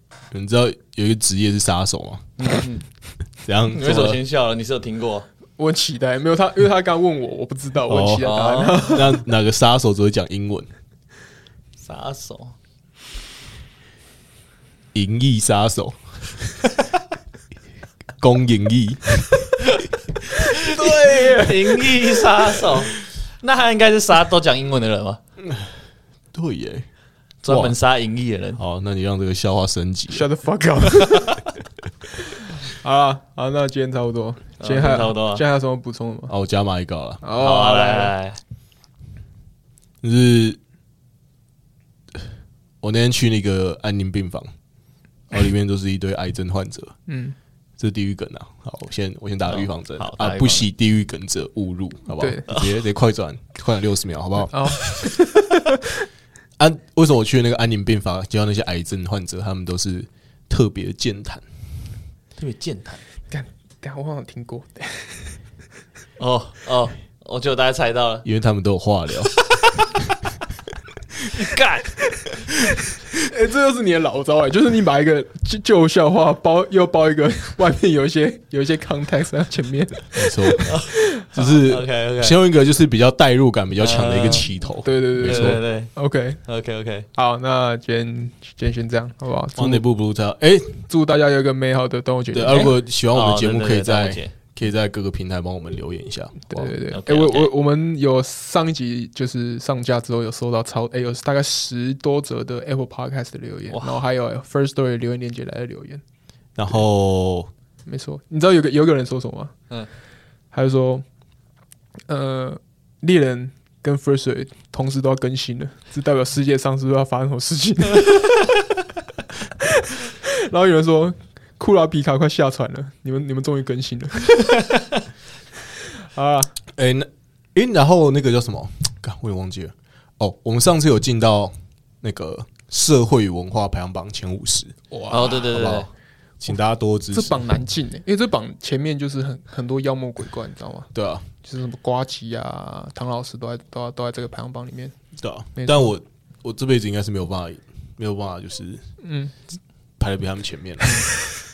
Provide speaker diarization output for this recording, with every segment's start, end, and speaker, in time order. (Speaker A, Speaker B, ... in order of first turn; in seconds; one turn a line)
Speaker A: 0.3-2.4
Speaker B: 2.5-2.8
Speaker A: 3.4-4.2
Speaker C: 3.7-5.3
Speaker B: 5.6-9.2
Speaker A: 7.9-10.7
Speaker C: 8.2-9.0
Speaker C: 11.8-12.5
Speaker A: 14.9-16.0
Speaker A: 18.2-19.6
Speaker A: 20.3-22.8
Speaker C: 20.5-25.2
Speaker B: 21.1-21.5
Speaker A: 25.4-25.7
Speaker A: 26.3-26.9
Speaker C: 27.4-28.6
Speaker A: 27.4-27.7
Speaker A: 28.6-30.2
Speaker B: 30.1-31.4
Speaker B: 32.2-36.3
Speaker C: 34.6-35.4
Speaker A: 36.3-37.2
Speaker B: 37.2-38.1
Speaker C: 37.4-38.4
Speaker A: 40.0-40.6
Speaker A: 42.8-44.5
Speaker A: 45.3-47.0
Speaker B: 47.1-47.4
Speaker A: 47.8-54.8
Speaker C: 49.5-50.6
Speaker B: 52.2-52.5
Speaker B: 54.5-55.8
Speaker A: 56.6-61.4
Speaker C: 62.4-63.0
Speaker B: 63.3-65.4
Speaker C: 66.2-68.2
Speaker A: 68.2-69.3
Speaker C: 69.6-69.8
Speaker C: 71.3-72.0
Speaker B: 73.2-81.2
Speaker A: 80.1-80.8
Speaker C: 80.7-82.4
Speaker A: 81.3-85.6
Speaker C: 83.8-84.5
Speaker B: 84.8-86.4
Speaker C: 85.2-85.9
Speaker C: 86.4-87.1
Speaker B: 87.1-89.8
Speaker A: 89.5-90.8
Speaker B: 90.9-92.7
Speaker A: 92.3-96.4
Speaker C: 92.5-94.3
Speaker B: 96.5-106.0
Speaker C: 96.8-97.5
Speaker C: 103.7-104.0
Speaker A: 106.5-107.5
Speaker B: 107.8-109.5
Speaker B: 110.5-111.0
Speaker B: 112.1-118.2
Speaker B: 119.6-124.6
Speaker B: 126.1-126.5
Speaker A: 126.8-134.7
Speaker B: 134.9-135.6
Speaker C: 135.1-135.9
Speaker A: 135.3-135.9
Speaker A: 136.4-137.4
Speaker B: 137.1-140.9
Speaker A: 140.9-141.2
Speaker B: 141.4-144.9
Speaker A: 145.2-148.8
Speaker B: 145.6-145.9
Speaker B: 149.0-149.3
Speaker A: 150.0-151.1